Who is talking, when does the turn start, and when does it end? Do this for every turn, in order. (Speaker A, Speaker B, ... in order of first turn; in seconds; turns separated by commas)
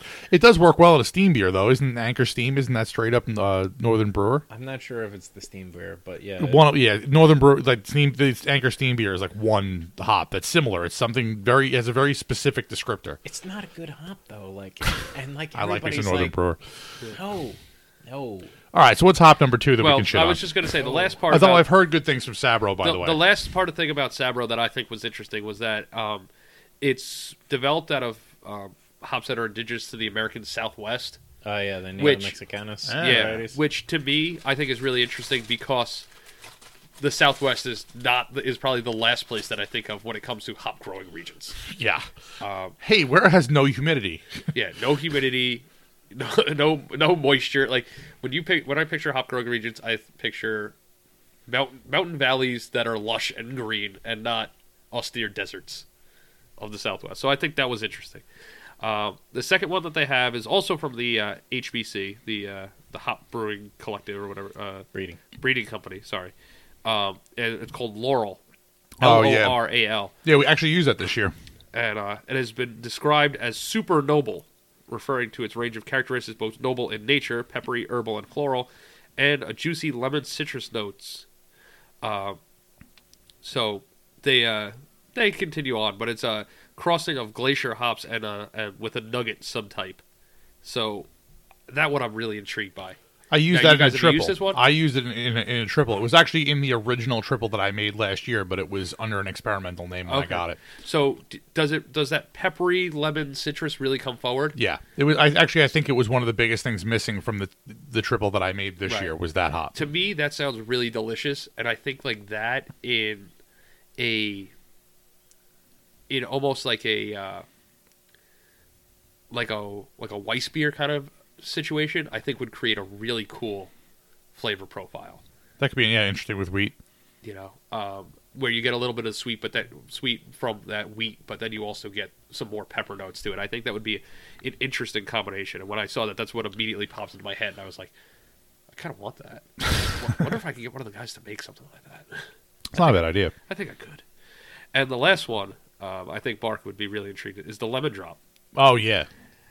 Speaker A: 0.3-4.4, Speaker B: 4.5-6.7, Speaker A: 6.4-13.2, Speaker B: 13.2-16.4, Speaker A: 15.5-16.6, Speaker B: 17.1-18.5, Speaker A: 18.7-20.7, Speaker C: 19.8-21.7, Speaker B: 20.8-21.2, Speaker A: 21.3-23.3, Speaker C: 22.8-26.3, Speaker C: 26.8-31.2, Speaker B: 31.4-33.6, Speaker C: 32.0-32.4, Speaker A: 32.8-33.4, Speaker C: 33.0-36.1, Speaker C: 37.0-41.6, Speaker A: 41.7-42.0, Speaker C: 42.4-42.8, Speaker A: 42.8-44.4, Speaker C: 44.5-50.7, Speaker C: 51.5-55.8, Speaker C: 56.6-58.2, Speaker C: 58.8-64.9, Speaker B: 64.9-65.2, Speaker C: 65.4-66.3, Speaker C: 66.8-68.4, Speaker A: 69.0-69.6, Speaker C: 69.0-70.1, Speaker A: 70.2-71.3, Speaker C: 71.7-81.2, Speaker C: 82.0-82.4, Speaker C: 83.4-90.0, Speaker C: 90.6-91.1, Speaker C: 91.7-93.0, Speaker A: 93.3-100.6, Speaker C: 93.5-94.6, Speaker C: 100.1-104.5, Speaker A: 104.5-109.8, Speaker C: 108.8-109.1, Speaker C: 109.7-113.3, Speaker C: 114.0-114.5, Speaker C: 116.1-117.4, Speaker C: 119.3-123.7, Speaker C: 124.3-125.2, Speaker A: 125.6-126.7, Speaker C: 127.2-137.9, Speaker C: 138.7-144.0, Speaker A: 142.7-143.3, Speaker C: 144.7-148.2, Speaker A: 148.5-149.1